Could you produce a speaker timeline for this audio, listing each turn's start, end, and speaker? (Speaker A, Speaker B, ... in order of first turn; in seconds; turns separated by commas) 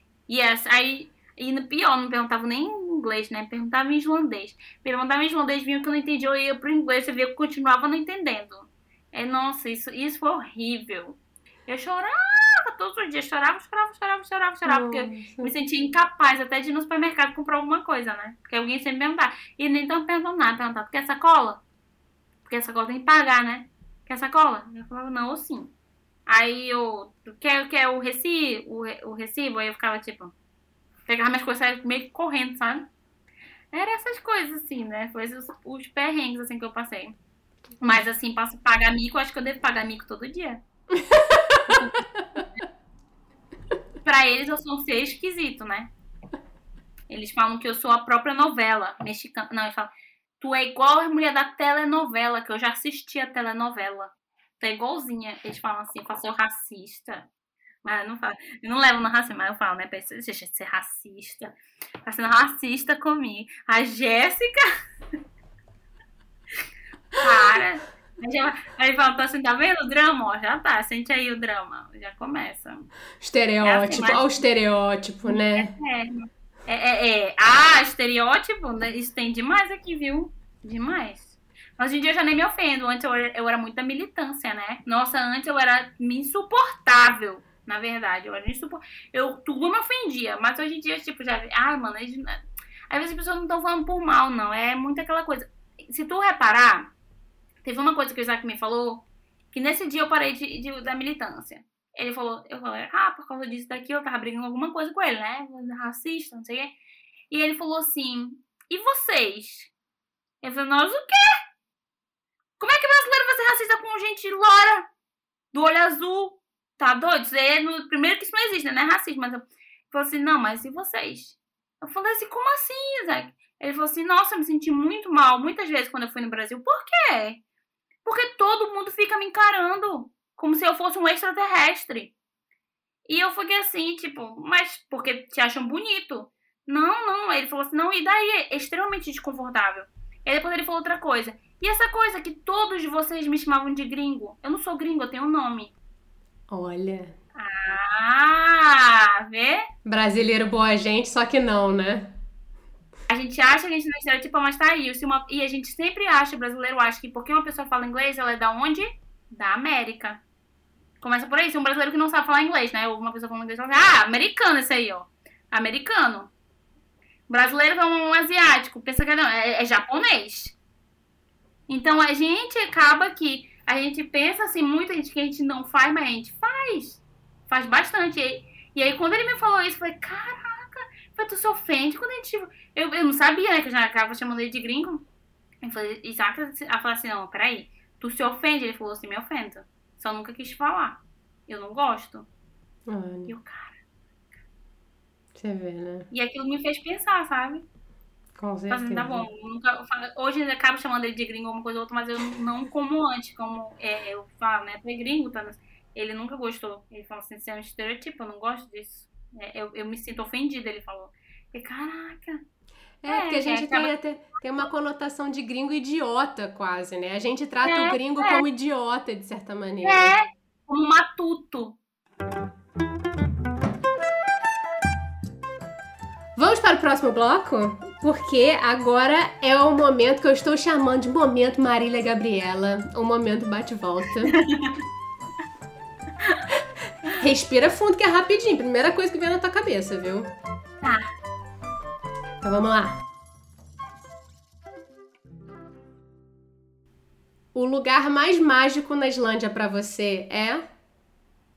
Speaker A: 0.3-21.6, Speaker B: 14.7-15.5, Speaker A: 22.4-25.7, Speaker A: 26.3-30.3, Speaker A: 31.1-32.9, Speaker A: 33.7-37.2, Speaker A: 37.8-40.6, Speaker B: 40.9-41.8, Speaker A: 41.7-42.6, Speaker A: 44.0-45.9, Speaker A: 47.1-57.3, Speaker A: 57.8-64.6, Speaker A: 67.2-72.9, Speaker B: 73.2-75.7, Speaker A: 73.6-74.4, Speaker A: 75.2-92.4, Speaker A: 92.9-96.9, Speaker A: 97.6-106.7, Speaker A: 107.3-109.7, Speaker A: 110.4-111.4, Speaker A: 112.6-114.9, Speaker A: 115.5-127.4, Speaker A: 128.1-132.1, Speaker A: 133.1-145.7, Speaker B: 146.5-147.1, Speaker A: 147.4-149.6, Speaker B: 149.9-152.1, Speaker A: 153.1-160.2, Speaker A: 161.0-166.3, Speaker A: 167.3-170.6, Speaker A: 171.7-185.1, Speaker A: 185.6-192.3, Speaker B: 192.9-193.3, Speaker A: 193.3-193.8, Speaker B: 195.4-196.1, Speaker A: 196.1-197.7, Speaker B: 198.4-199.3, Speaker A: 198.7-212.4, Speaker B: 213.0-220.1, Speaker A: 213.1-213.9, Speaker A: 217.6-218.4, Speaker A: 219.8-221.8, Speaker B: 226.4-234.3, Speaker A: 234.3-234.8, Speaker B: 237.1-240.3, Speaker B: 242.4-243.0, Speaker B: 247.6-250.6